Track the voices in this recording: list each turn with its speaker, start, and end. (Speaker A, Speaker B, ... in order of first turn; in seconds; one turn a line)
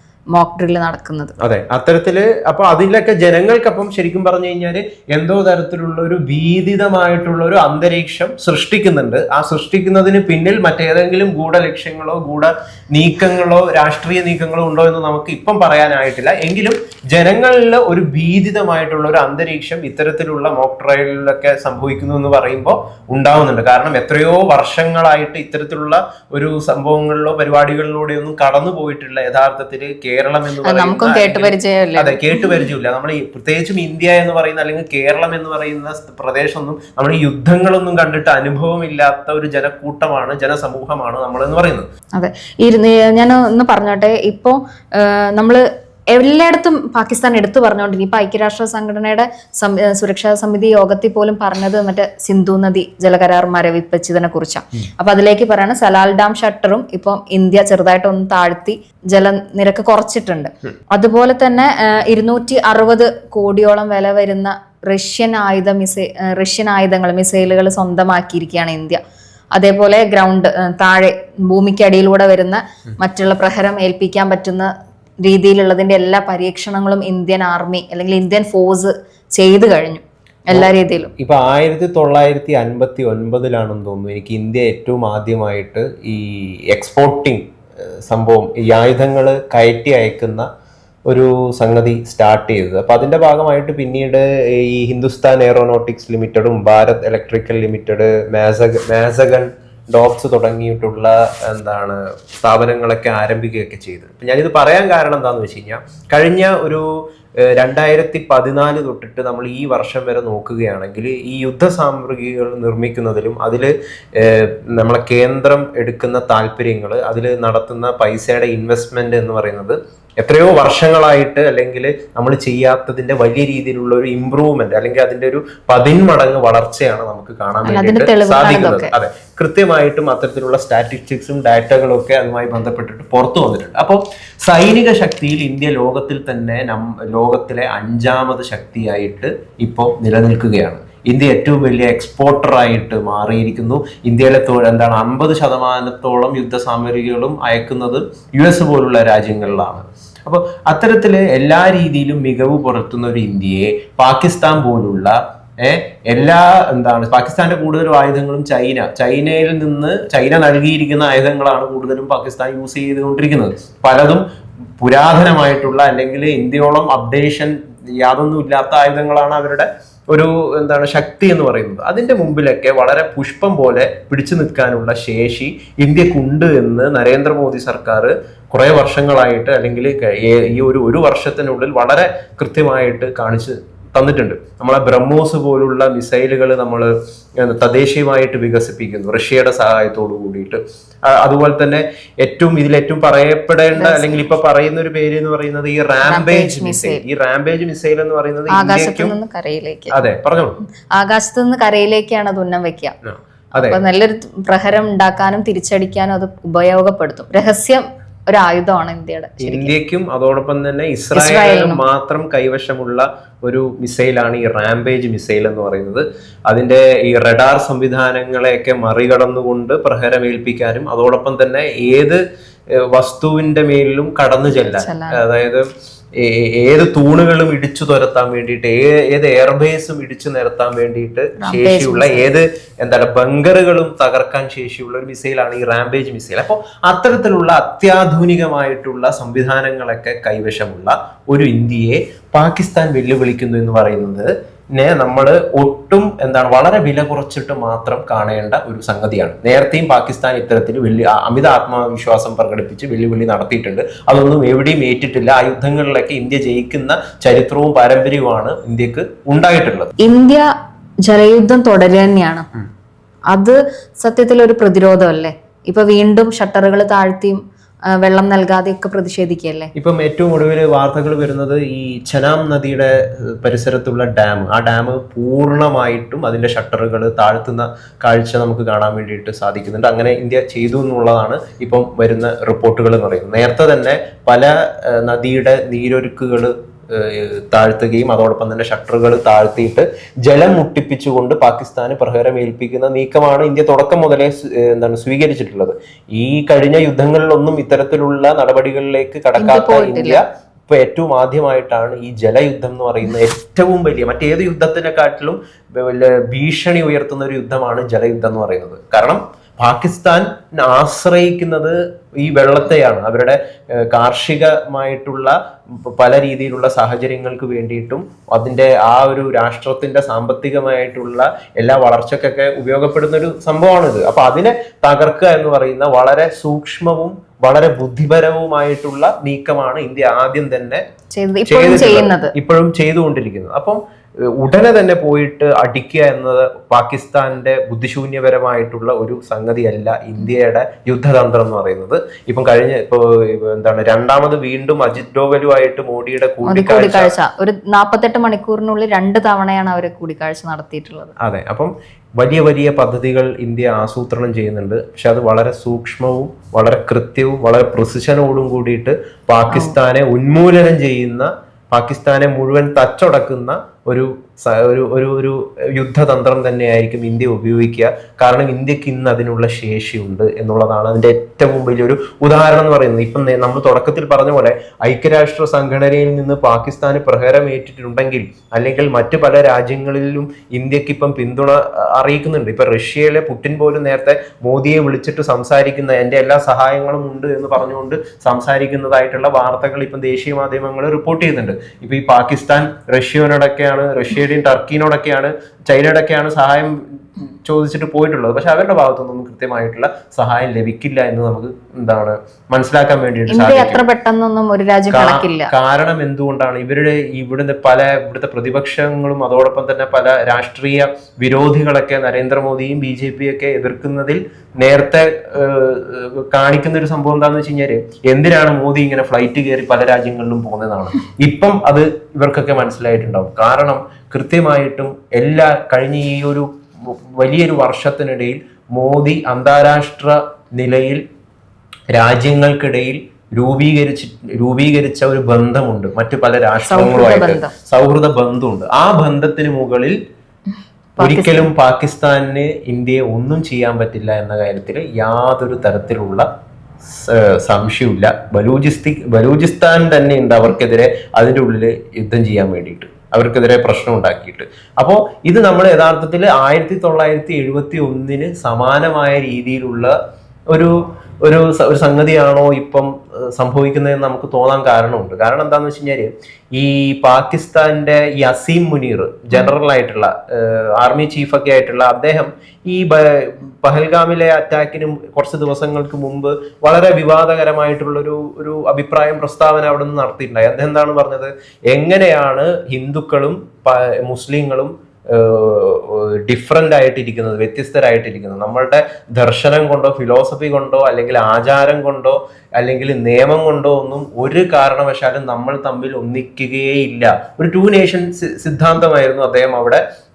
Speaker A: 0.3-1.3
Speaker B: 1.4-41.9
Speaker A: 30.6-32.6
Speaker A: 42.2-69.0
Speaker A: 69.5-74.7
Speaker A: 75.2-81.1
Speaker B: 80.5-87.4
Speaker B: 88.1-90.5
Speaker B: 91.1-106.9
Speaker B: 107.4-164.2
Speaker A: 127.6-128.9
Speaker B: 164.8-199.2
Speaker A: 193.8-194.2
Speaker A: 196.1-197.0
Speaker A: 198.5-199.9
Speaker B: 199.9-200.6
Speaker A: 200.9-202.9
Speaker B: 203.1-203.8
Speaker A: 203.6-209.7
Speaker B: 209.4-222.2
Speaker A: 211.1-211.8
Speaker B: 222.8-259.9
Speaker A: 224.5-225.2
Speaker A: 231.4-232.3
Speaker A: 260.0-260.4
Speaker A: 261.1-262.4
Speaker A: 263.3-267.4
Speaker A: 267.9-269.7
Speaker B: 269.8-330.8
Speaker A: 299.4-300.2
Speaker A: 331.1-332.3
Speaker B: 331.5-347.1
Speaker A: 346.4-351.1
Speaker B: 351.2-403.8
Speaker A: 359.5-359.8
Speaker A: 403.3-405.5
Speaker B: 404.9-431.0
Speaker B: 431.9-440.0
Speaker A: 436.6-437.5
Speaker B: 441.0-446.2
Speaker A: 441.0-441.5
Speaker B: 446.9-459.9
Speaker B: 460.5-499.8